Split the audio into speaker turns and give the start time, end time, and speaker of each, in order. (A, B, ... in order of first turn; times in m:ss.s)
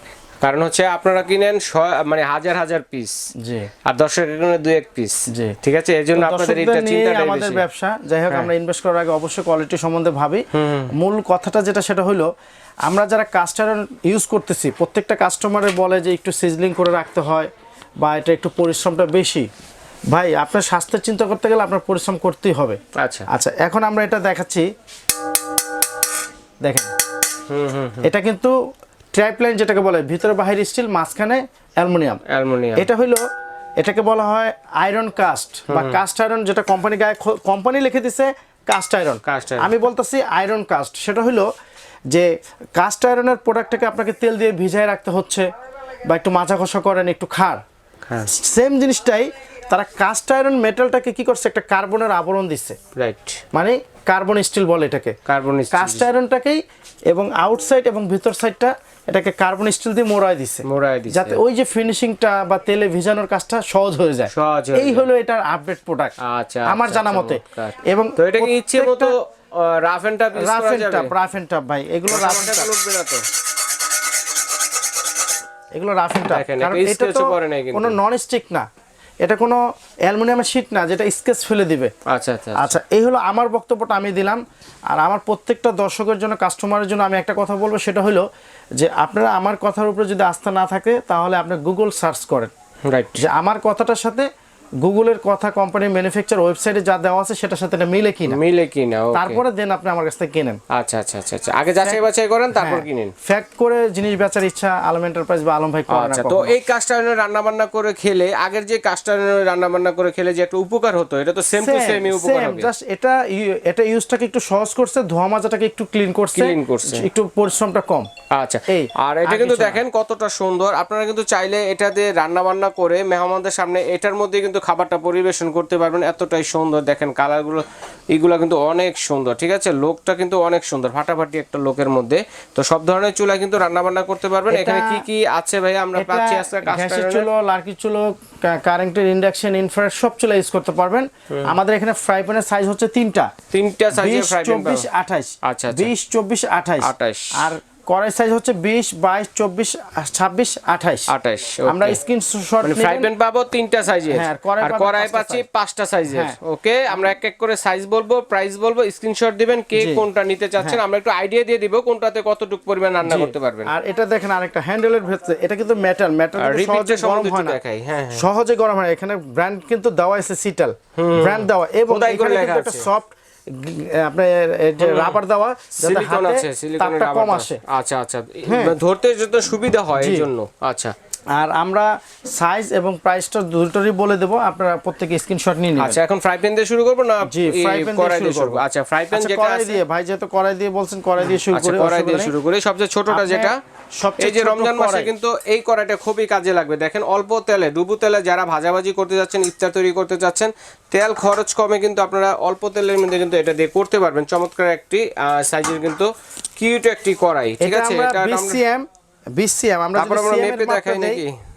0:00.4-0:03.3 A
0:03.4-0:03.7 B
0:03.8-0:07.6 A
0:05.3-0:05.6 B
0:06.1-0:10.4 B
0:10.5-0:10.9 A
0:11.0-0:12.3 B
0:12.8-0:17.5 B
0:18.0-0:19.5 B
0:20.1-0:22.8 B
0:23.0-0:23.2 A
0:23.3-0:24.6 B
0:26.6-0:26.9 B
0:27.5-0:28.1 A
0:28.0-0:28.5 B
0:29.1-0:32.2 B
0:32.3-0:32.8 A
0:32.8-0:33.2 B
0:33.8-0:41.5 B
0:35.7-0:36.0 A
0:39.2-0:39.7 A
0:42.1-0:45.4 B
0:46.1-0:47.6 B
0:48.0-0:48.3 A
0:48.3-0:52.8 B
0:52.9-0:53.4 A
0:53.5-0:55.1 B
0:55.3-0:56.0 A
0:55.7-1:06.1 B
1:00.6-1:01.4 A
1:04.3-1:05.0 A
1:06.2-1:11.1 A
1:06.7-1:09.1 B
1:10.3-1:12.7 B
1:12.1-1:13.2 A
1:15.7-1:18.6 B
1:16.3-1:18.0 A
1:19.2-1:21.9 B
1:22.1-1:22.8 A
1:22.6-1:28.2 B
1:28.8-1:32.5 B
1:32.8-1:33.2 A
1:33.2-1:34.2 B
1:34.8-1:38.4 B
1:38.3-1:39.4 A
1:39.1-1:40.6 B
1:40.7-1:43.1 A
1:41.8-1:46.6 B
1:45.9-1:52.7 A
1:51.5-1:58.1 B
1:56.3-1:57.1 A
1:58.3-2:17.3 A
1:58.7-1:59.8 B
2:14.5-2:15.0 B
2:15.9-2:23.3 B
2:23.5-2:24.9 A
2:23.9-2:31.1 B
2:25.4-2:25.9 A
2:26.8-2:27.5 A
2:31.1-2:32.0 A
2:31.6-2:33.1 B
2:32.6-2:43.7 A
2:34.1-2:35.4 B
2:36.1-2:36.4 B
2:39.8-2:40.0 B
2:43.0-2:47.6 B
2:46.4-2:48.2 A
2:48.1-2:57.6 B
2:51.0-2:52.9 A
2:54.8-2:55.2 A
2:55.8-3:00.9 A
2:58.4-2:58.8 B
3:00.0-3:00.3 B
3:01.3-3:06.0 B
3:05.8-3:09.8 A
3:07.2-3:12.3 B
3:11.3-3:13.6 A
3:13.1-3:15.1 B
3:14.2-3:28.6 A
3:27.6-3:31.2 B
3:29.9-3:31.3 A